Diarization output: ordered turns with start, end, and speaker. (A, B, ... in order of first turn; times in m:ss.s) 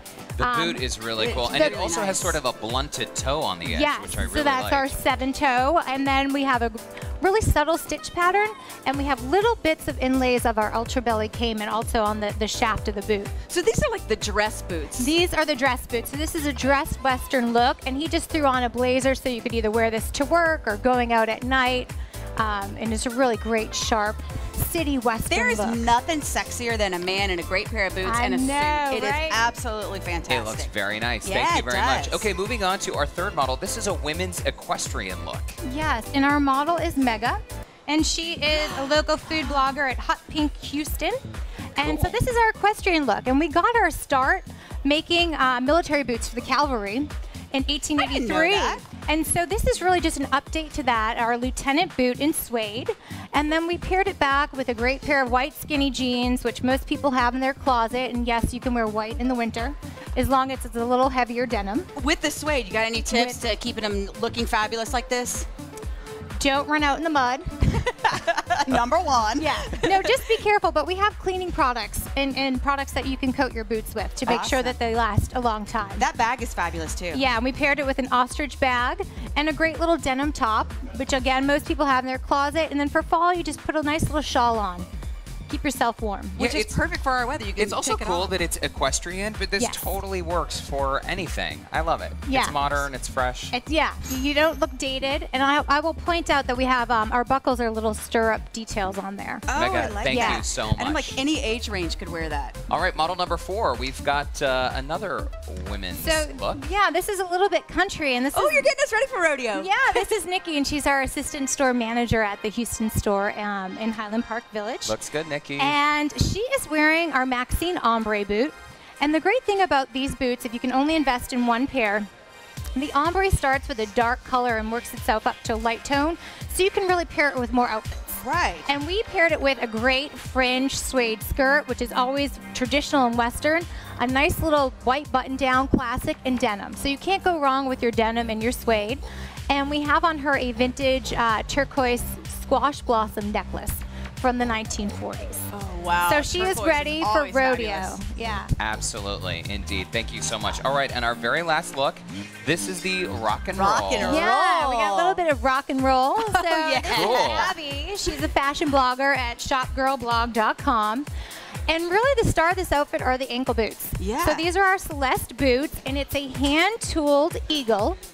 0:00.4-0:05.0 A
0:00.4-0:00.9 B
0:01.2-0:02.4 C
0:01.4-0:02.3 B
0:03.7-0:13.3 B
0:13.5-0:15.2 C
0:15.0-0:25.8 B
0:25.3-0:30.7 C
0:28.0-0:29.4 B
0:30.3-0:35.6 A
0:31.2-0:32.2 C
0:35.6-0:41.2 B
0:41.8-1:01.9 B
0:41.8-0:42.2 A
0:48.0-0:48.8 C
1:02.0-1:05.5 C
1:03.1-1:03.4 B
1:06.4-1:07.5 B
1:07.7-1:10.2 C
1:09.4-1:16.1 B
1:14.2-1:14.8 C
1:16.0-1:17.2 C
1:17.1-1:24.9 B
1:25.5-1:26.4 B
1:26.4-1:28.3 C
1:26.4-1:26.8 A
1:27.6-1:33.5 A
1:29.6-1:30.0 B
1:32.3-1:32.6 B
1:33.5-1:39.5 B
1:39.5-1:42.6 C
1:39.5-1:41.2 A
1:40.0-1:40.4 B
1:42.7-1:46.6 A
1:45.9-1:48.7 B
1:48.3-1:50.0 C
1:49.5-1:55.0 B
1:54.8-1:55.8 A
1:55.6-2:02.1 B
2:02.8-2:08.1 B
2:08.1-2:08.7 C
2:08.7-2:25.5 B
2:25.5-2:28.0 C
2:26.1-2:28.5 B
2:28.6-2:34.3 A
2:33.5-2:35.2 C
2:34.0-2:41.1 B
2:36.2-2:37.6 C
2:36.9-2:37.5 A
2:41.7-2:48.0 B
2:44.0-2:44.5 C